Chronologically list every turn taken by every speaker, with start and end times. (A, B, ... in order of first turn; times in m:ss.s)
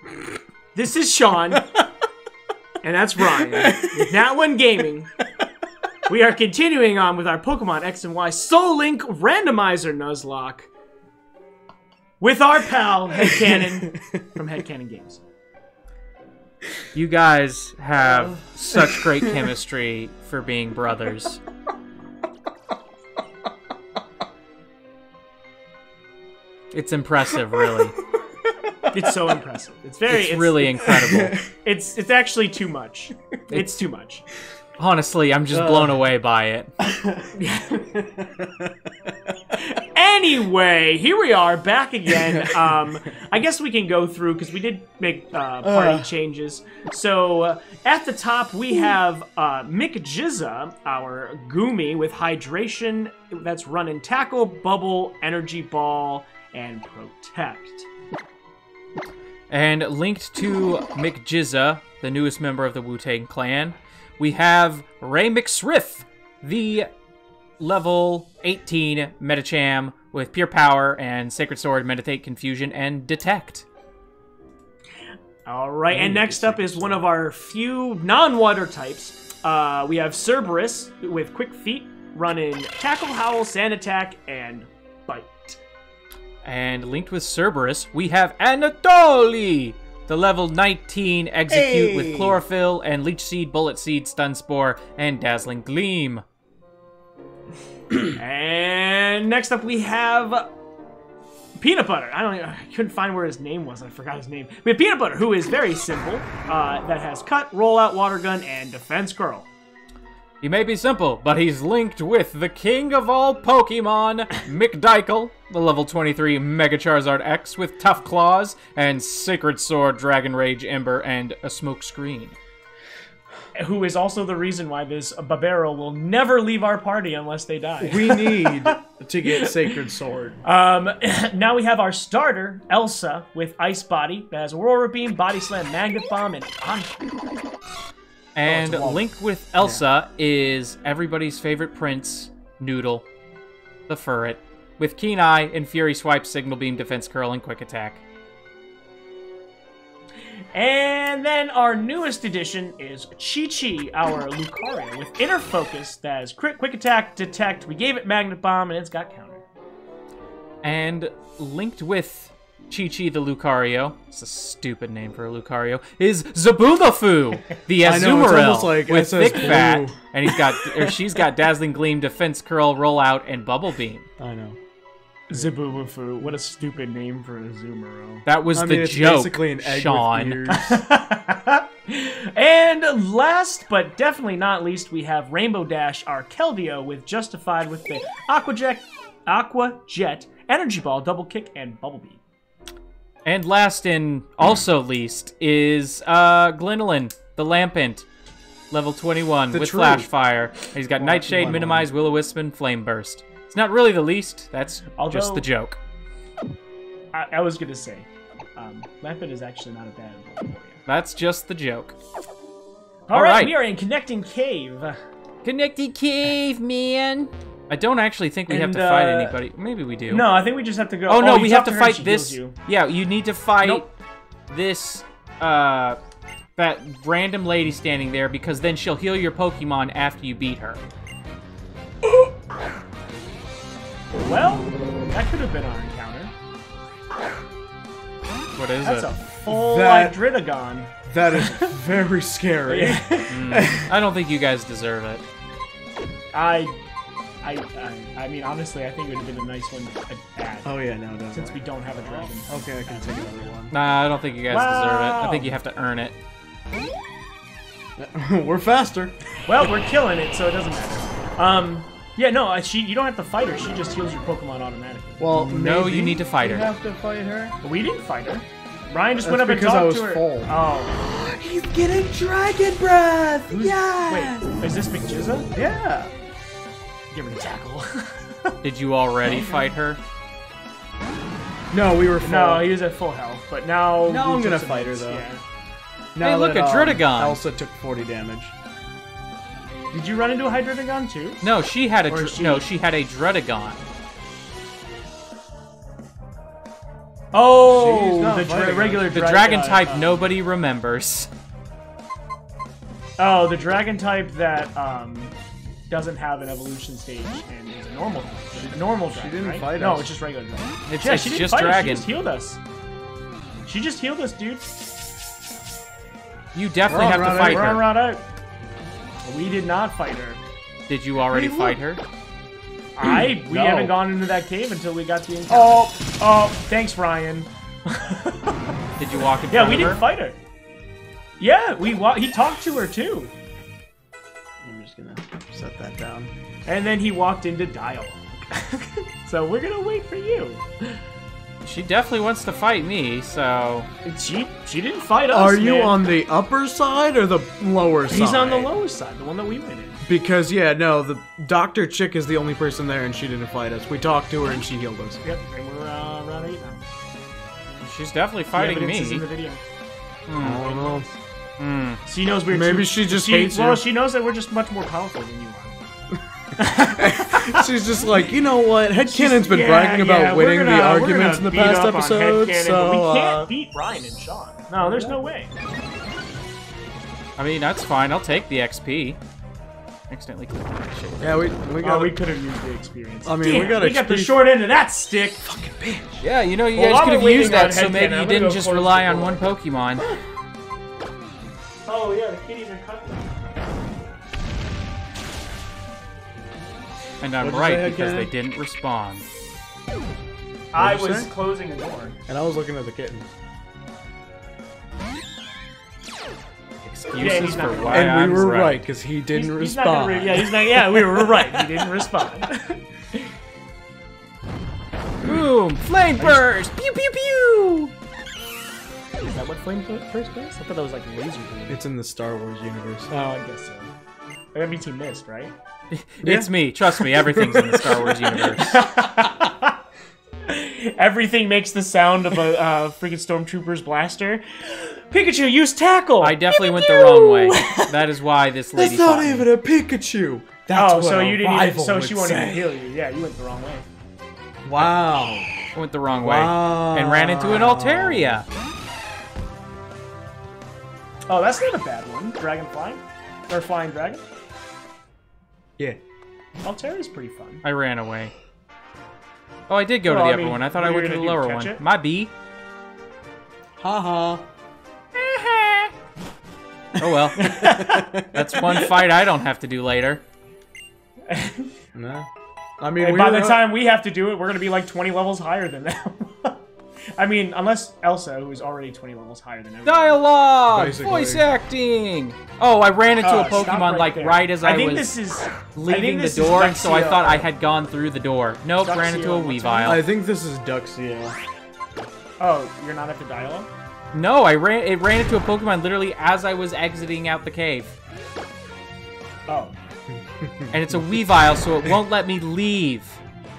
0:00.7-0:01.7 A
0:02.8-0:05.1 A
0:03.4-0:04.2 B
0:06.1-0:10.7 A
0:12.2-0:15.2 A
0:16.9-0:21.4 C
0:18.7-0:19.5 B
0:26.7-0:28.0 C
0:28.5-0:29.1 B
0:28.9-0:31.0 A
0:30.1-0:31.4 C
0:30.8-0:31.5 B
0:31.5-0:34.2 A
0:34.8-0:36.7 C
0:35.5-0:36.0 B
0:36.8-0:37.3 B
0:37.4-0:37.8 A
0:37.9-0:39.1 B
0:39.6-0:57.9 A
0:42.3-0:42.7 B
0:45.6-0:46.1 B
0:59.5-1:06.9 C
1:07.6-1:13.6 C
1:15.4-1:25.6 A
1:15.9-1:17.1 B
1:26.4-1:36.2 C
1:31.5-1:32.4 B
1:38.2-1:40.5 A
1:41.6-1:49.5 A
1:50.4-2:02.3 C
2:03.6-2:08.8 A
2:07.8-2:10.4 B
2:09.3-2:09.8 A
2:10.4-2:17.0 A
2:18.3-2:23.0 C
2:18.4-2:19.1 B
2:23.9-2:28.0 C
2:30.5-2:39.4 A
2:40.6-2:54.1 C
2:47.8-2:50.0 B
2:54.2-2:54.6 B
2:55.3-2:58.2 A
2:58.2-3:00.5 C
2:58.5-3:00.8 B
3:00.6-3:12.2 A
3:13.2-3:18.1 C
3:18.7-3:25.8 C
3:19.5-3:20.1 B
3:21.0-3:21.9 B
3:25.0-3:25.5 A
3:27.1-3:30.8 A
3:30.9-3:31.9 C
3:33.1-3:35.0 A
3:33.1-3:33.6 C
3:35.4-3:40.3 C
3:38.5-3:39.4 A
3:40.1-3:42.6 A
3:41.1-3:43.9 C
3:44.5-3:46.0 C
3:46.6-3:50.8 C
3:54.2-3:56.3 A
3:58.6-3:59.1 C
3:58.8-4:01.7 A
3:59.5-4:00.2 B
4:01.1-4:03.9 B
4:02.7-4:03.6 A
4:03.3-4:05.2 C
4:06.3-4:06.8 A
4:07.4-4:10.7 A
4:10.6-4:11.6 B
4:11.3-4:13.4 A
4:12.2-4:13.8 B
4:13.7-4:16.1 C
4:14.5-4:15.6 A
4:18.0-4:19.2 B
4:19.4-4:25.2 A
4:25.2-4:27.6 B
4:25.3-4:26.7 C
4:27.6-4:31.0 A
4:29.2-4:34.5 B
4:33.5-4:35.5 A
4:35.5-4:36.1 B
4:37.1-4:38.6 A
4:38.6-4:40.0 C
4:41.7-4:42.7 B
4:42.2-4:45.4 A
4:44.1-4:45.2 B
4:46.1-4:48.5 B
4:46.2-4:47.4 C
4:49.9-4:51.4 A
4:51.4-4:53.8 C
4:52.1-4:52.7 A
4:57.3-5:00.2 A
4:57.6-4:59.1 B
4:59.1-5:01.3 C
5:03.2-5:05.4 A
5:05.9-5:12.6 A
5:08.5-5:10.1 B
5:10.9-5:12.1 C
5:13.7-5:14.7 A
5:16.5-5:17.9 C
5:16.9-5:17.8 B
5:17.4-5:18.2 A
5:19.2-5:20.4 A
5:20.9-5:22.0 C
5:21.3-5:21.8 B
5:23.0-5:28.6 A
5:23.0-5:24.0 B
5:25.5-5:25.9 B
5:29.0-5:30.0 C
5:29.5-5:30.4 A
5:31.4-5:33.3 A
5:34.6-5:36.3 B
5:36.7-5:41.0 A
5:41.6-5:43.9 C
5:44.0-5:46.0 A
5:45.3-5:48.7 B
5:48.1-5:50.0 A
5:50.0-5:55.2 B
5:55.2-5:56.8 A
5:57.8-5:59.2 C
5:58.5-5:59.6 A
6:00.3-6:00.7 C
6:00.4-6:01.1 B
6:00.6-6:01.0 A
6:01.6-6:02.0 C
6:02.1-6:05.8 A
6:02.5-6:03.8 B
6:06.6-6:07.7 A
6:06.8-6:13.5 B
6:09.1-6:15.5 A
6:14.8-6:15.3 B
6:17.4-6:19.2 C
6:20.1-6:21.5 C
6:21.2-6:22.2 B
6:21.8-6:25.5 A
6:23.2-6:24.4 B
6:25.4-6:26.1 B
6:26.2-6:30.1 C
6:26.8-6:29.5 A
6:31.9-6:33.3 A
6:37.2-6:39.2 C
6:37.4-6:38.3 B
6:40.7-6:42.2 A
6:40.8-6:41.3 B
6:42.3-6:43.3 B
6:46.9-6:48.8 C
6:47.1-6:52.1 B
6:47.2-6:48.5 A
6:49.3-6:53.3 A
6:55.2-6:57.9 C
6:59.2-7:01.8 A
7:01.7-7:03.1 B
7:03.1-7:03.9 A
7:04.5-7:05.5 A
7:05.9-7:08.8 C
7:06.2-7:08.3 B
7:08.6-7:09.8 A
7:10.4-7:17.9 A
7:16.2-7:19.5 C
7:18.8-7:22.7 B
7:20.7-7:23.9 A
7:24.6-7:25.5 B
7:25.7-7:28.4 C
7:26.1-7:28.4 B
7:31.3-7:34.2 A
7:36.6-7:37.6 A
7:37.6-7:38.3 C
7:39.7-7:42.3 C
7:40.1-7:41.8 A
7:43.8-7:44.4 B
7:45.1-7:45.9 C
7:47.0-7:47.8 C
7:47.4-7:48.9 A
7:47.4-7:48.6 B
7:48.3-7:50.2 C
7:51.3-7:51.7 A
7:51.9-7:52.3 B
7:52.8-7:53.7 B
7:53.0-7:56.6 A
7:57.2-8:00.2 A
7:59.8-8:05.1 C
8:00.7-8:01.4 B
8:03.2-8:07.4 A
8:05.7-8:10.0 C
8:08.8-8:10.0 A
8:09.8-8:11.4 B
8:12.4-8:13.7 A
8:14.1-8:17.9 C
8:19.5-8:19.8 A
8:20.1-8:21.2 B
8:20.7-8:23.2 C